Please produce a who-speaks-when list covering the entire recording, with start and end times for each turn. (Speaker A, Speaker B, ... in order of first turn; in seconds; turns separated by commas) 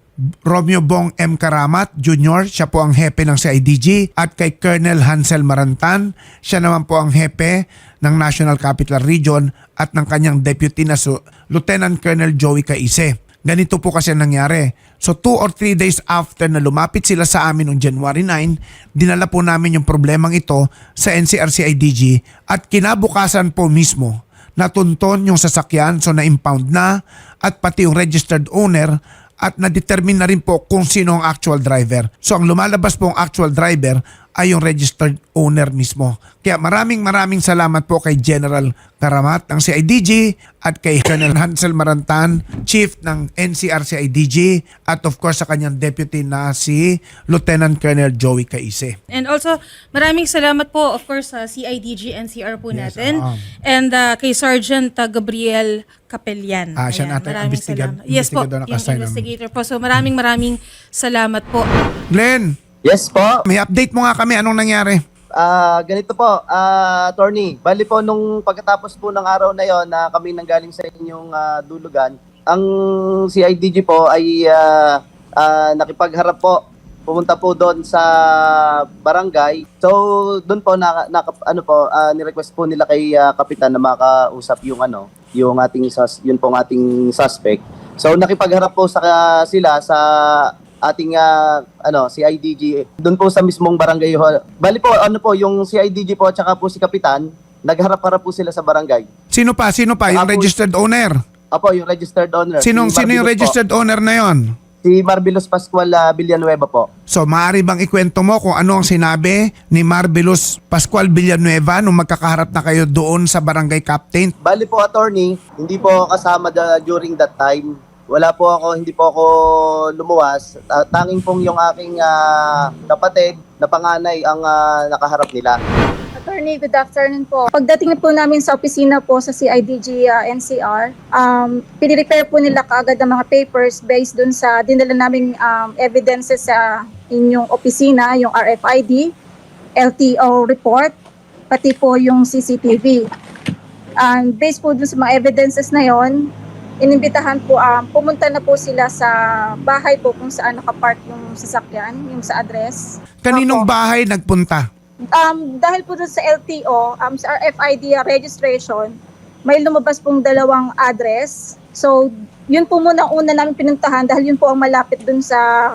Speaker A: 0.5-49.0, Speaker B: 49.1-61.7, Speaker A: 52.7-53.4, Speaker A: 56.8-59.2, Speaker A: 62.1-62.5, Speaker C: 62.8-63.4, Speaker A: 63.5-65.0, Speaker C: 65.4-72.7, Speaker C: 73.3-74.7, Speaker C: 75.4-76.6, Speaker C: 77.1-78.1, Speaker C: 79.0-90.0, Speaker C: 90.8-91.3, Speaker C: 91.9-99.1, Speaker A: 99.3-101.2, Speaker C: 100.1-100.5, Speaker C: 101.5-103.5, Speaker A: 102.6-104.4, Speaker C: 104.8-106.9, Speaker A: 107.1-114.3, Speaker C: 114.4-119.3, Speaker C: 120.0-122.2, Speaker C: 122.8-125.6, Speaker D: 126.2-139.1, Speaker D: 139.8-140.9, Speaker D: 141.5-143.0, Speaker D: 144.0-146.3, Speaker D: 146.8-149.1, Speaker D: 149.6-153.7, Speaker A: 153.2-154.6, Speaker D: 155.1-158.9, Speaker D: 159.5-165.4